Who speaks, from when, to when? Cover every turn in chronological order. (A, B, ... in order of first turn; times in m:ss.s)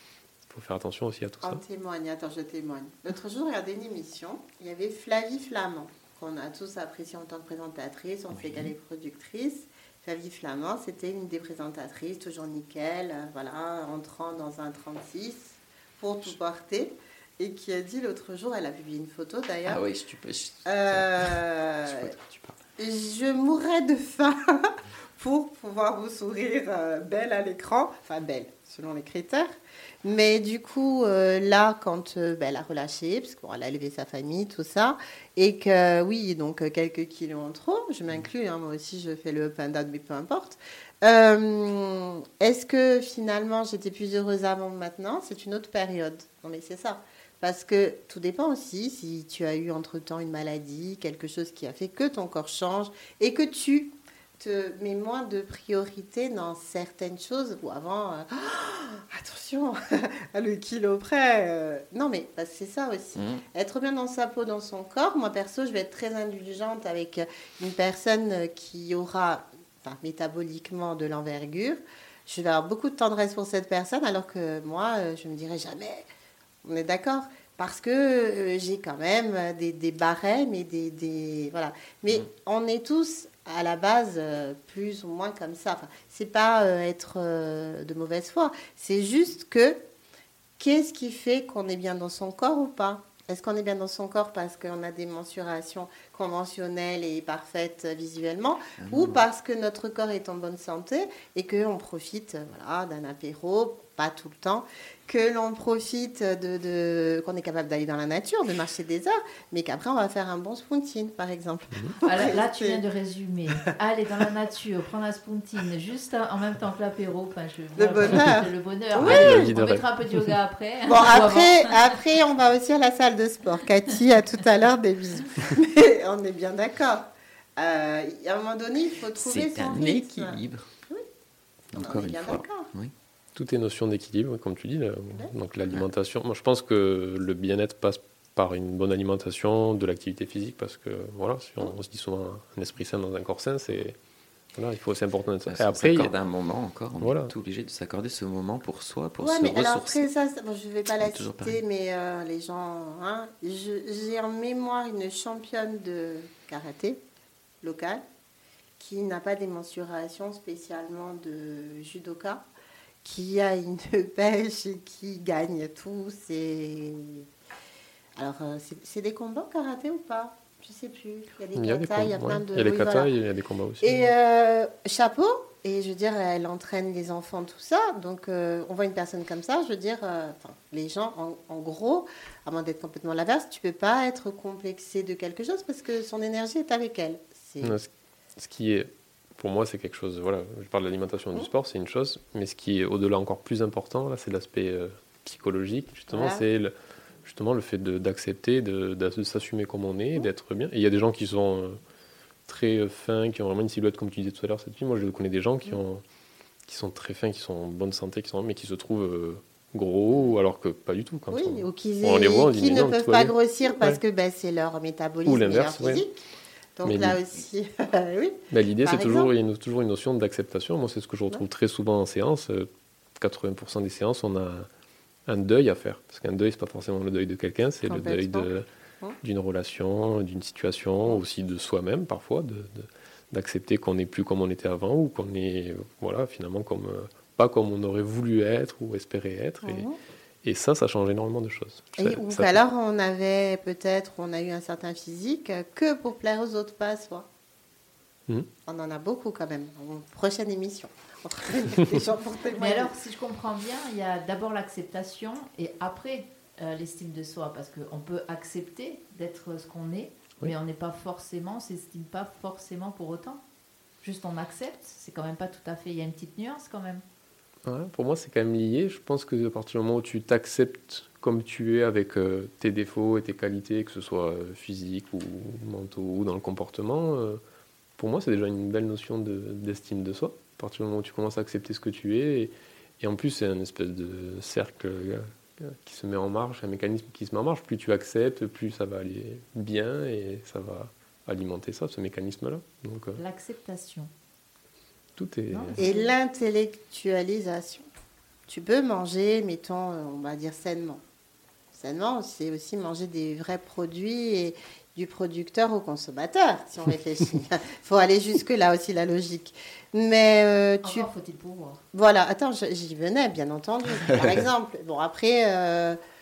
0:00.4-0:01.6 A
0:01.4-0:19.8 B
0:08.3-0:08.7 C
0:19.6-0:22.6 C
0:20.6-0:22.1 B
0:22.8-0:29.5 B
0:30.0-1:16.0 B
1:03.2-1:03.4 C
1:16.6-1:29.8 B
1:30.6-1:52.8 B
1:38.8-1:39.2 C
1:52.0-2:02.0 D
1:57.8-1:59.5 B
1:58.9-2:00.3 A
2:00.9-2:11.0 B
2:09.1-2:10.6 C
2:11.7-2:12.9 C
2:11.7-2:12.7 B
2:13.3-2:24.0 A
2:24.5-2:26.1 A
2:25.5-2:30.1 C
2:27.0-2:27.3 A
2:29.2-2:37.0 B
2:31.0-2:31.6 C
2:37.6-2:38.0 B
2:38.8-2:42.4 B
2:43.0-2:47.3 B
2:48.2-2:53.1 B
2:51.6-2:54.1 A
2:53.8-3:07.8 B
3:07.6-3:16.7 A
3:16.1-3:16.5 B
3:17.2-3:21.8 A
3:22.5-3:26.0 A
3:26.6-3:34.0 A
3:31.3-3:36.1 B
3:35.2-3:36.0 A
3:36.8-3:39.3 B
3:36.8-3:37.2 A
3:38.5-3:44.7 A
3:45.3-3:48.6 A
3:47.9-3:48.5 B
3:49.2-3:59.8 A
3:59.6-3:59.9 B
4:00.4-4:02.5 A
4:02.0-4:07.3 B
4:08.6-4:12.9 B
4:12.6-4:23.4 D
4:24.0-4:27.0 D
4:27.6-4:37.4 A
4:38.0-4:53.2 A
4:53.2-4:54.1 D
4:55.2-4:55.8 A
4:55.5-4:56.1 D
4:55.8-4:57.9 B
4:58.5-5:01.0 B
5:01.7-5:11.1 B
5:10.8-5:11.8 D
5:11.9-5:16.0 B